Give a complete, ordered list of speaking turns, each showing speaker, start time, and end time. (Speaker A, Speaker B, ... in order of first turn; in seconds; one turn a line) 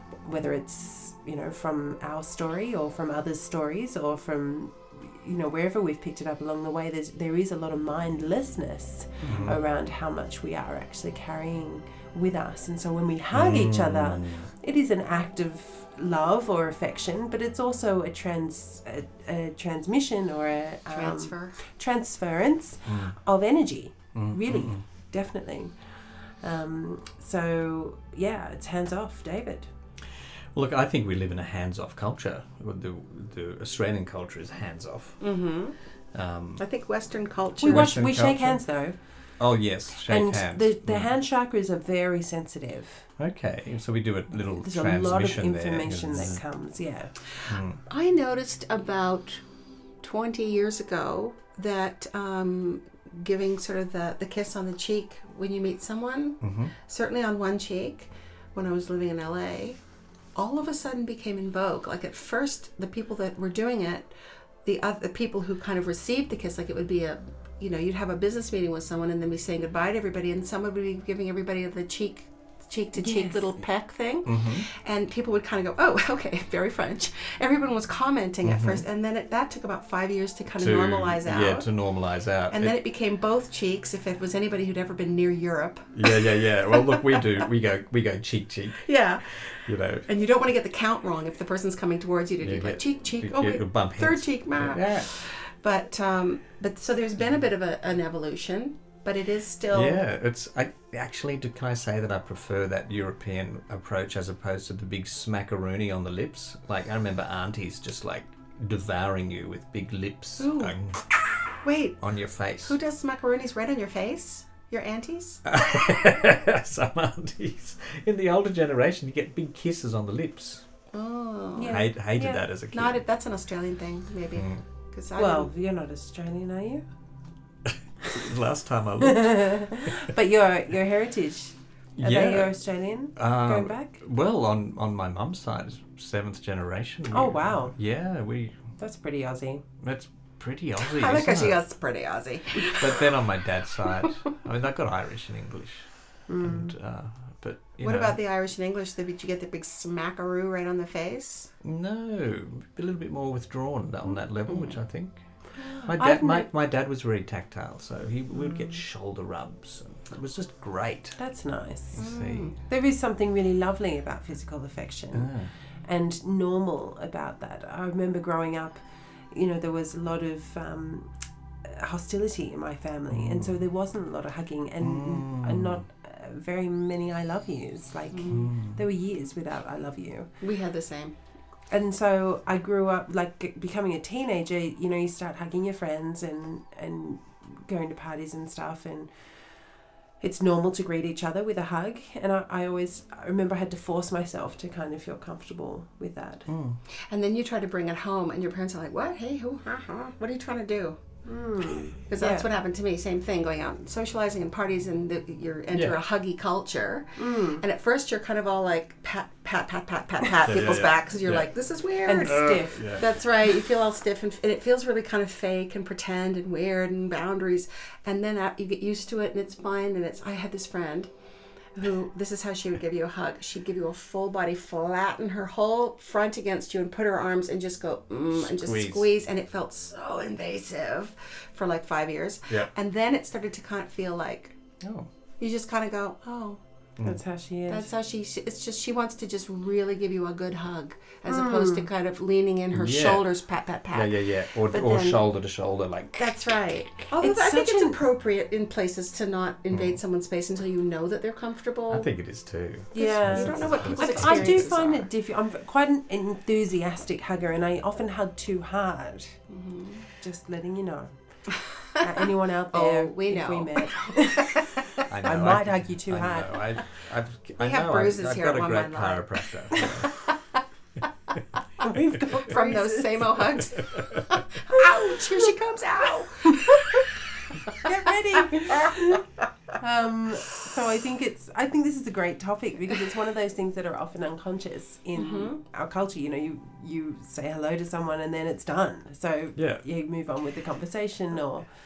Speaker A: 0.2-25.7
Speaker B: 9.2-9.6
Speaker B: 13.3-14.5
Speaker C: 20.9-21.6
Speaker B: 22.9-23.1
Speaker B: 24.1-24.8
Speaker A: 26.4-29.7
Speaker B: 30.5-35.2
Speaker C: 35.2-35.7
Speaker B: 36.1-36.6
Speaker C: 36.6-37.9
Speaker A: 37.6-39.0
Speaker B: 37.6-38.6
Speaker B: 39.4-41.1
Speaker A: 40.0-43.0
Speaker B: 43.2-46.4
Speaker A: 44.5-47.1
Speaker B: 47.5-47.8
Speaker C: 47.9-49.4
Speaker C: 50.0-59.8
Speaker B: 56.4-56.7
Speaker C: 60.4-64.1
Speaker C: 64.6-81.7
Speaker A: 73.0-73.5
Speaker B: 74.2-74.7
Speaker B: 78.4-78.8
Speaker B: 80.5-82.7
Speaker C: 82.5-87.4
Speaker B: 85.9-90.1
Speaker C: 88.8-89.2
Speaker C: 90.0-100.0
Speaker B: 92.4-95.1
Speaker B: 99.7-111.1
Speaker C: 110.4-110.8
Speaker C: 111.6-112.0
Speaker B: 112.0-112.8
Speaker C: 112.6-115.4
Speaker B: 115.5-120.6
Speaker C: 120.9-121.8
Speaker A: 121.5-122.5
Speaker B: 121.7-123.0
Speaker C: 122.7-125.5
Speaker B: 124.3-124.6
Speaker A: 125.2-126.8
Speaker B: 128.1-129.8
Speaker A: 129.0-134.0
Speaker B: 132.0-132.6
Speaker B: 133.1-138.6
Speaker A: 137.1-137.7
Speaker A: 138.8-139.6
Speaker B: 139.8-141.6
Speaker C: 140.8-143.1
Speaker B: 142.6-145.9
Speaker A: 146.3-146.7
Speaker B: 146.4-148.2
Speaker C: 147.8-151.5
Speaker B: 151.6-155.2
Speaker C: 154.5-154.7
Speaker A: 155.6-156.5
Speaker B: 155.9-161.2
Speaker A: 161.2-162.0
Speaker B: 161.9-162.5
Speaker C: 162.0-162.5
Speaker A: 162.6-165.3
Speaker B: 165.1-165.5
Speaker A: 165.8-168.8
Speaker A: 169.3-171.1
Speaker A: 171.6-180.3
Speaker B: 173.1-173.6
Speaker B: 174.8-175.8
Speaker C: 178.1-178.5
Speaker B: 178.3-178.8
Speaker C: 180.4-181.1
Speaker A: 181.7-189.1
Speaker A: 190.2-196.5
Speaker B: 196.5-196.8
Speaker C: 197.1-201.0
Speaker A: 201.2-202.5
Speaker C: 201.9-221.1
Speaker A: 207.2-207.6
Speaker B: 210.4-211.5
Speaker A: 212.0-212.9
Speaker B: 212.2-213.1
Speaker C: 221.8-234.6
Speaker B: 228.3-229.1
Speaker B: 234.8-235.1
Speaker C: 235.4-236.6
Speaker A: 237.0-237.9
Speaker C: 237.7-244.1
Speaker A: 241.3-241.9
Speaker B: 242.7-243.2
Speaker B: 243.9-246.4
Speaker C: 244.7-245.2
Speaker C: 246.2-252.1
Speaker A: 247.1-248.0
Speaker B: 249.7-250.0
Speaker B: 251.9-254.8
Speaker A: 252.9-259.4
Speaker C: 252.9-255.1
Speaker C: 259.5-260.1
Speaker A: 260.2-261.1
Speaker C: 261.7-262.0
Speaker A: 262.0-266.8
Speaker C: 262.7-264.7
Speaker B: 265.1-270.1
Speaker C: 267.6-269.3
Speaker A: 271.8-273.6
Speaker C: 272.4-277.1
Speaker A: 277.8-279.2
Speaker A: 279.8-291.6
Speaker C: 285.1-285.6
Speaker B: 289.6-289.8